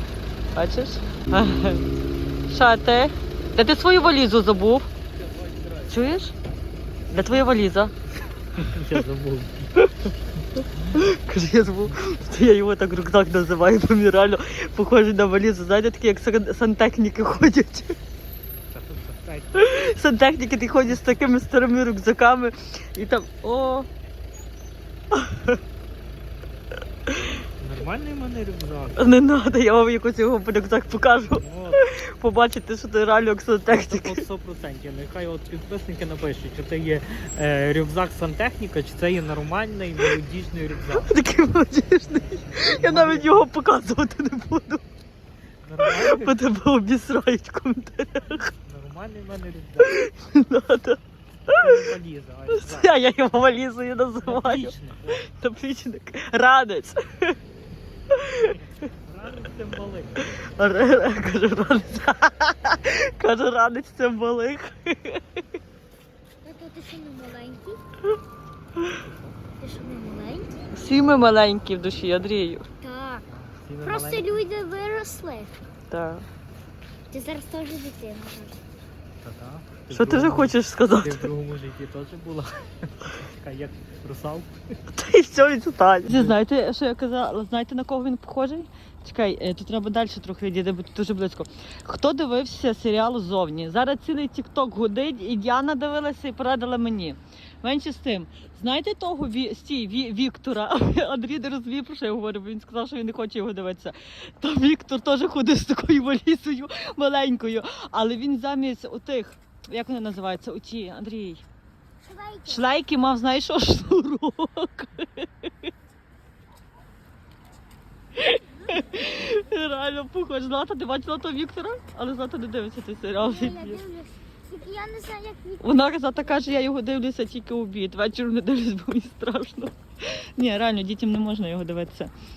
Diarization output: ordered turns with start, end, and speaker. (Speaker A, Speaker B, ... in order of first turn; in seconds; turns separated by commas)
Speaker A: 0.5-1.9, Speaker A: 2.5-4.9, Speaker A: 5.9-6.3, Speaker A: 7.1-7.9, Speaker B: 8.6-9.9, Speaker A: 10.9-18.0, Speaker B: 18.7-19.6, Speaker A: 19.5-23.9, Speaker A: 25.1-25.5, Speaker B: 27.6-29.0, Speaker A: 29.0-34.2, Speaker B: 31.3-31.8, Speaker B: 33.7-41.1, Speaker A: 40.9-44.9, Speaker B: 42.1-43.5, Speaker B: 45.6-46.4, Speaker A: 45.8-48.5, Speaker B: 48.6-50.0, Speaker A: 49.8-51.8, Speaker B: 51.6-52.9, Speaker A: 52.5-57.4, Speaker B: 54.2-55.3, Speaker A: 58.1-58.5, Speaker B: 58.5-60.3, Speaker A: 60.3-65.2, Speaker C: 66.4-67.8, Speaker B: 69.0-69.4, Speaker C: 69.6-70.7, Speaker A: 70.7-72.7, Speaker C: 72.8-73.3, Speaker B: 73.3-74.5, Speaker C: 73.8-75.5, Speaker A: 75.9-76.3, Speaker C: 77.1-78.6, Speaker B: 79.2-84.8, Speaker A: 79.9-81.3, Speaker A: 84.9-111.4, Speaker B: 86.1-86.4, Speaker C: 112.0-112.6, Speaker A: 112.5-115.5, Speaker A: 118.2-123.8, Speaker C: 123.2-125.7, Speaker A: 125.6-132.1